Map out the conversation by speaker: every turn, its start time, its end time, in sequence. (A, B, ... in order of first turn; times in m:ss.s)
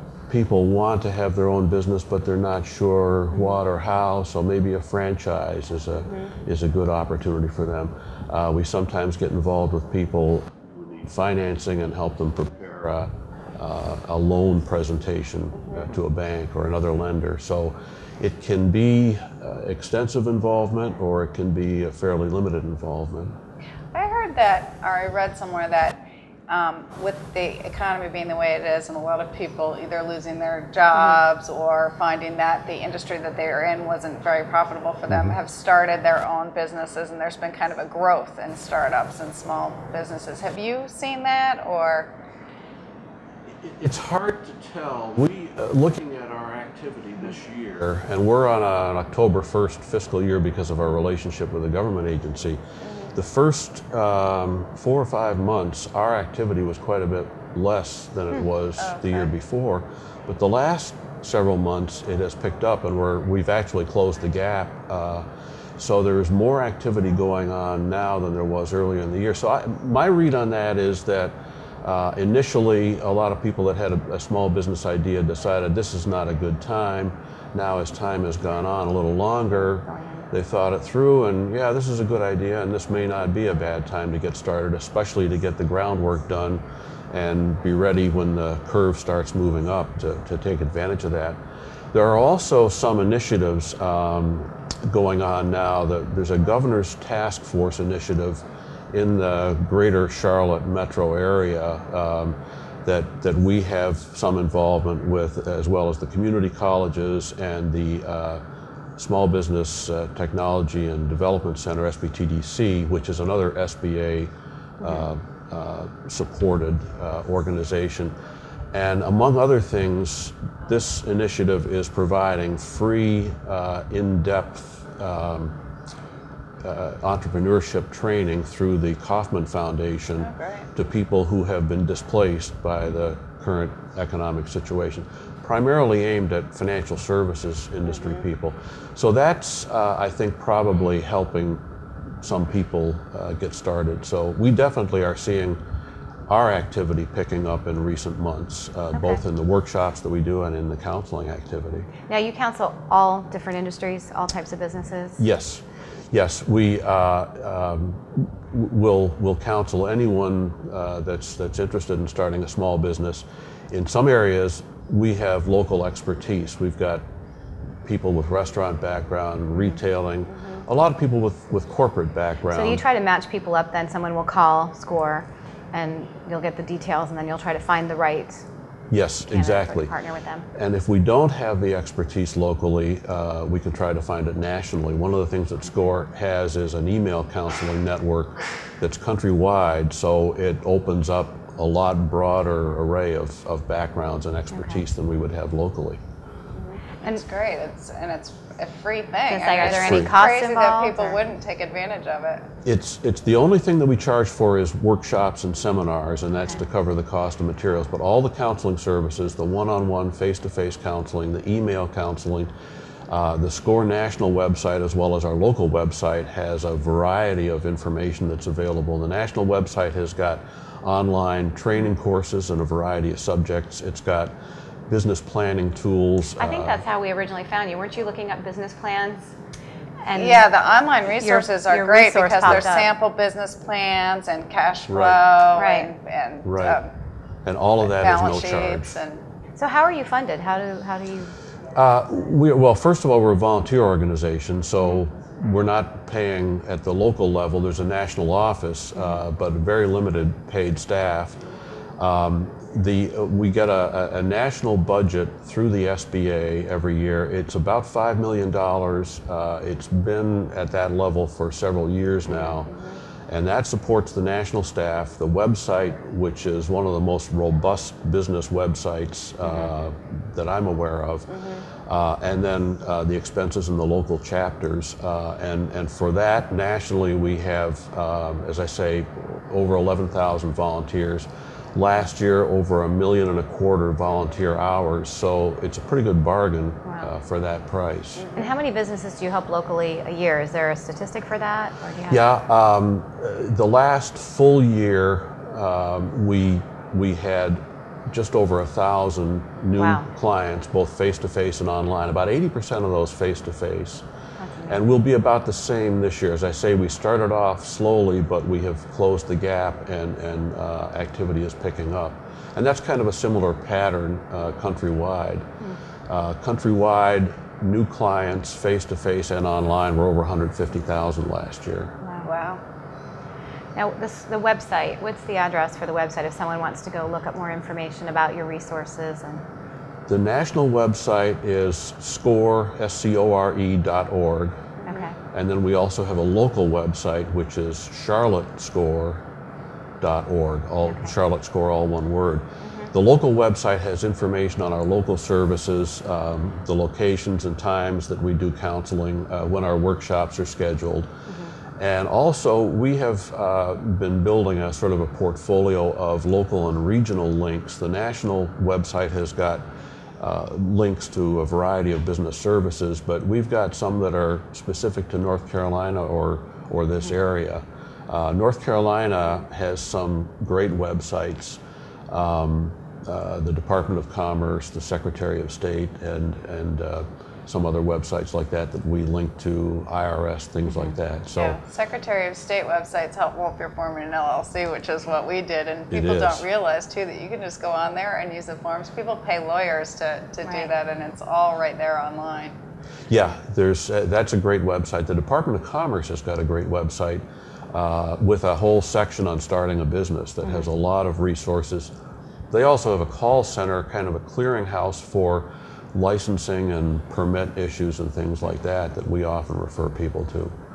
0:00.3-0:23.3 A
0:23.9-0:42.1 B
0:30.9-0:31.2 C
0:35.1-0:35.4 A
0:43.6-0:52.6 A
0:52.8-0:53.1 B
0:53.1-1:05.2 A
0:58.8-0:59.3 B
1:05.8-1:31.4 A
1:19.8-1:20.2 C
1:31.9-1:48.4 A
1:49.0-1:58.1 A
1:58.7-2:05.5 A
2:06.6-2:21.6 A
2:10.2-2:10.7 B
2:17.8-2:18.2 B
2:22.2-2:25.6 A
2:26.3-2:31.9 A
2:28.9-2:29.2 C
2:32.1-2:35.2 C
2:35.2-2:47.0 A
2:47.8-2:52.8 A
2:52.5-2:58.4 C
2:58.9-2:59.9 A
2:59.3-3:00.4 C
3:00.5-3:16.0 A
3:14.5-3:14.8 C
3:16.5-3:22.4 B
3:19.3-3:21.2 C
3:19.6-3:20.1 A
3:22.6-3:32.5 A
3:33.1-3:44.3 A
3:44.9-3:46.8 A
3:46.4-3:49.3 C
3:50.0-3:50.5 C
3:50.1-3:56.9 B
3:51.1-3:52.9 C
3:54.9-3:55.3 A
3:55.5-3:55.9 C
3:56.4-3:56.8 A
3:57.4-3:59.0 A
3:57.8-3:59.2 B
3:59.6-4:01.3 C
4:01.7-4:11.4 A
4:09.0-4:09.2 C
4:12.0-4:22.7 A
4:22.3-4:23.0 B
4:23.3-4:31.3 A
4:29.4-4:29.7 C
4:31.3-4:31.6 B
4:31.8-4:48.3 A
4:48.2-4:48.5 B
4:48.3-4:52.2 C
4:52.1-5:04.0 A
4:59.7-5:00.1 C
5:04.4-5:04.8 C
5:04.7-5:15.4 A
5:16.1-5:21.9 A
5:22.0-5:22.3 C
5:22.2-5:22.6 B
5:23.8-5:29.4 C
5:30.1-5:34.6 A
5:34.8-5:35.2 C
5:35.3-5:39.2 A
5:40.0-5:51.1 A
5:40.8-5:41.1 C
5:42.6-5:42.9 C
5:51.3-5:51.5 C
5:51.8-5:59.6 A
6:00.2-6:21.6 A
6:20.6-6:21.0 C
6:21.4-6:32.5 B
6:25.9-6:26.4 A
6:30.4-6:30.7 C
6:33.1-6:41.9 A
6:40.4-6:40.7 C
6:42.5-6:50.5 A